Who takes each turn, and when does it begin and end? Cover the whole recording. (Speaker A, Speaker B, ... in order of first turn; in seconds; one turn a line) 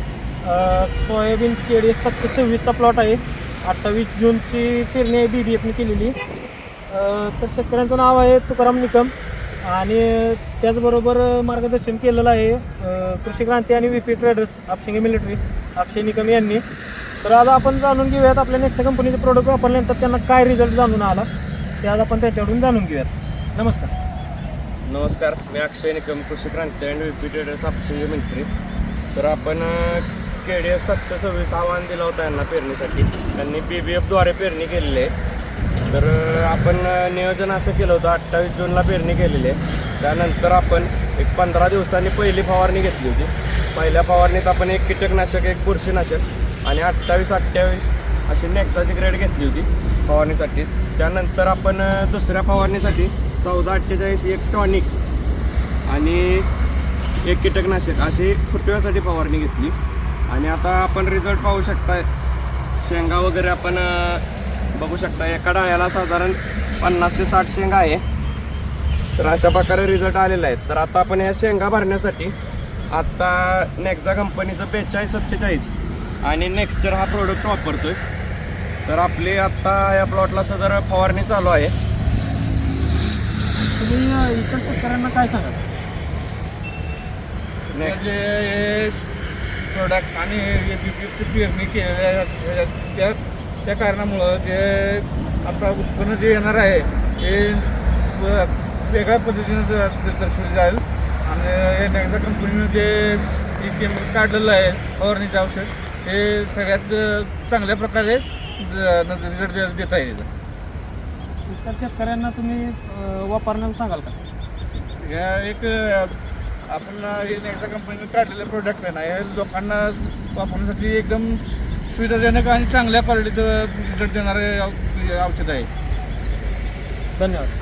Speaker A: 0.4-6.2
Speaker A: 6.9-9.1
Speaker A: 9.6-16.6
Speaker A: 17.2-21.3
Speaker A: 21.8-23.9
Speaker B: 24.9-28.5
Speaker B: 29.1-35.1
Speaker B: 35.9-54.9
Speaker B: 55.9-56.5
Speaker B: 57.2-59.8
Speaker B: 60.3-62.1
Speaker B: 62.8-64.2
Speaker B: 64.8-68.0
Speaker B: 69.2-72.3
Speaker B: 72.9-78.0
Speaker B: 78.9-81.7
Speaker A: 83.8-85.6
Speaker B: 87.7-88.0
Speaker C: 87.8-89.0
Speaker C: 89.7-110.3
Speaker A: 111.5-114.2
Speaker C: 115.0-116.1
Speaker C: 116.7-121.4
Speaker C: 121.9-125.7
Speaker A: 127.2-127.5